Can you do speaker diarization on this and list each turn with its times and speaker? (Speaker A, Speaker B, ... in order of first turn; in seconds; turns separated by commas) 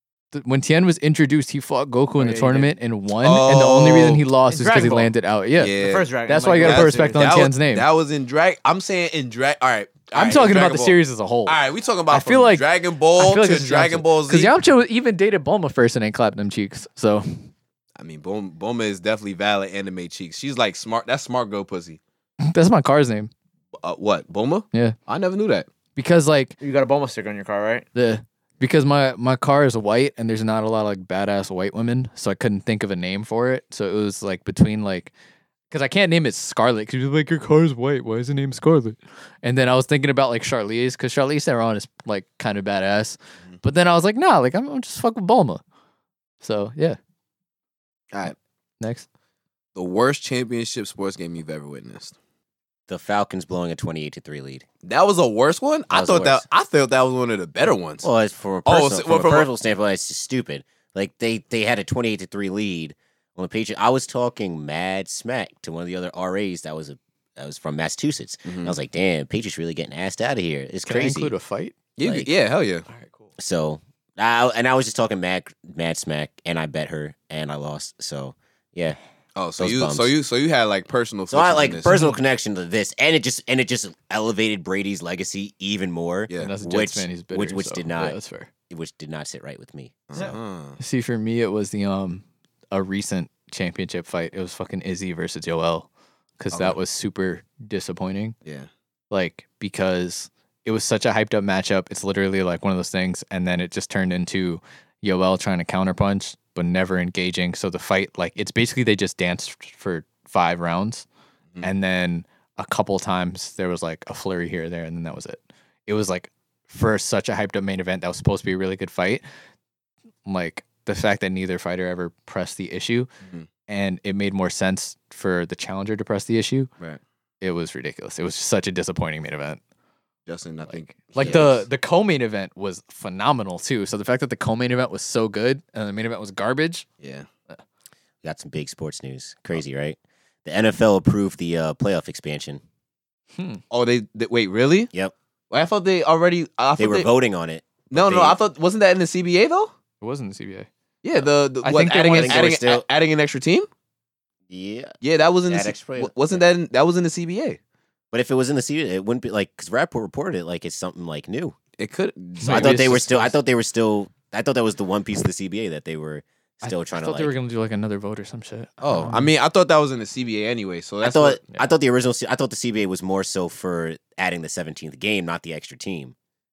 Speaker A: 0.3-7.9, Speaker B: 2.2-2.7, Speaker C: 3.2-4.2, Speaker B: 4.5-5.1, Speaker C: 5.6-6.1, Speaker B: 5.8-7.3, Speaker C: 6.6-14.5, Speaker A: 10.1-11.6, Speaker A: 12.1-17.5, Speaker C: 18.0-22.0, Speaker A: 22.4-23.3, Speaker C: 23.8-25.7, Speaker A: 25.9-26.6, Speaker B: 26.6-27.9, Speaker A: 27.9-35.1, Speaker A: 35.7-45.6, Speaker A: 46.4-47.0, Speaker A: 48.3-49.1, Speaker C: 49.8-52.1, Speaker D: 52.9-54.6, Speaker C: 54.9-58.1, Speaker D: 55.9-56.5, Speaker D: 58.0-71.3, Speaker C: 58.7-59.5, Speaker C: 68.5-68.8, Speaker A: 70.8-71.8, Speaker C: 72.0-72.9, Speaker D: 72.0-72.3, Speaker A: 72.9-73.2, Speaker D: 73.4-79.0, Speaker C: 79.4-81.9, Speaker D: 79.6-80.1, Speaker D: 81.3-88.2, Speaker A: 81.9-82.2, Speaker A: 86.4-88.5, Speaker D: 88.7-90.3, Speaker C: 90.1-90.8, Speaker A: 90.8-98.4, Speaker C: 96.5-96.8, Speaker C: 98.4-98.7, Speaker A: 99.1-111.1, Speaker A: 111.6-119.2, Speaker A: 120.3-123.1, Speaker A: 123.7-126.7, Speaker A: 127.4-129.6, Speaker C: 130.3-131.7, Speaker A: 130.7-136.9, Speaker C: 137.0-137.3, Speaker D: 138.2-142.6, Speaker A: 143.4-143.6, Speaker C: 143.7-144.9, Speaker C: 145.5-147.1, Speaker D: 146.8-148.4, Speaker C: 147.9-149.7, Speaker A: 150.0-150.7, Speaker C: 151.0-153.7, Speaker A: 151.6-152.4, Speaker D: 152.0-152.8, Speaker D: 154.5-156.4, Speaker C: 155.0-157.6, Speaker D: 158.1-161.6, Speaker C: 161.8-163.1, Speaker A: 162.4-163.3, Speaker D: 162.5-167.3, Speaker A: 166.6-169.3, Speaker D: 168.8-169.1, Speaker C: 168.8-171.4, Speaker D: 171.0-176.2